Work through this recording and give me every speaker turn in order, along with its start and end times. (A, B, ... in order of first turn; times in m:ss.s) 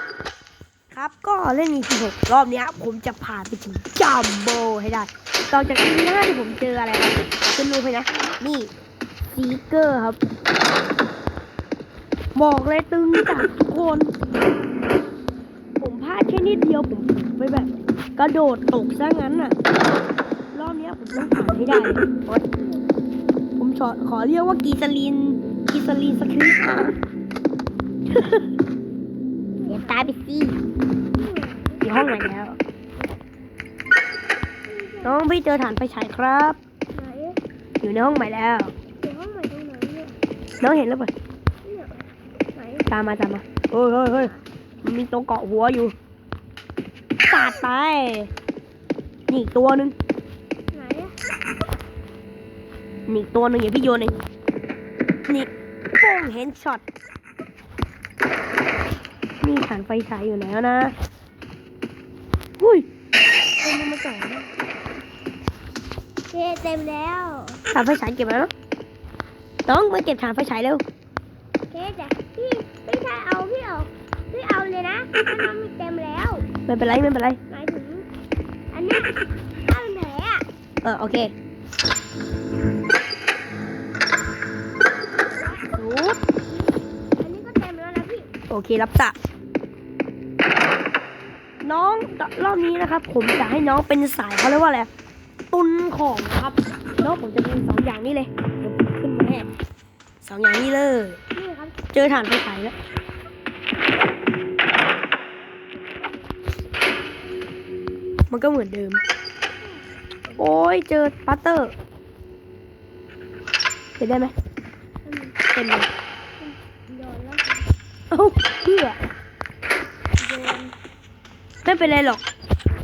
0:00.9-0:08.7 A
0:09.3-0:10.2 A
0:12.4-0:14.1 A
0:15.8-0:19.6 A
0:20.5-0:22.4 A
0:22.5-0:22.9 B
0:23.6-0:27.0 A
0:28.1-0:28.4 A
0:29.5-0:30.2 B
0:29.7-0:30.6 A
0:31.1-0:31.9 B
0:31.8-0:32.6 A
0:34.7-0:35.2 B
0:35.0-0:36.6 A
0:36.9-0:37.4 B
0:37.8-0:38.7 A
0:39.0-0:40.2 B
0:40.6-0:41.1 A
0:41.6-0:42.0 B
0:42.5-0:43.0 B
0:42.9-0:46.0 A
0:44.1-0:44.4 B
0:47.2-0:48.3 A
0:49.3-0:50.0 A
0:50.7-0:51.2 B
0:53.1-0:54.1 A
0:55.3-0:56.8 A
0:59.4-1:01.0 A
1:02.6-1:02.9 A
1:03.6-1:04.5 A
1:06.3-1:07.6 B
1:07.7-1:08.5 A
1:09.7-1:10.8 A
1:11.7-1:16.5 B
1:16.7-1:17.4 A
1:17.5-1:18.1 B
1:18.7-1:20.5 B
1:20.8-1:21.3 A
1:25.7-1:26.2 A
1:27.2-1:28.3 B
1:28.5-1:29.2 A
1:31.6-1:34.9 A
1:35.5-1:39.5 A
1:40.2-1:41.2 A
1:41.4-1:41.9 B
1:41.9-1:42.8 A
1:48.3-1:49.0 A
1:50.4-1:51.7 A
1:54.0-1:54.3 A
1:55.0-1:55.4 B
1:55.5-1:55.9 A
1:56.4-1:57.7 B
1:58.1-1:59.0 A
2:00.2-2:00.8 B
2:01.6-2:02.2 A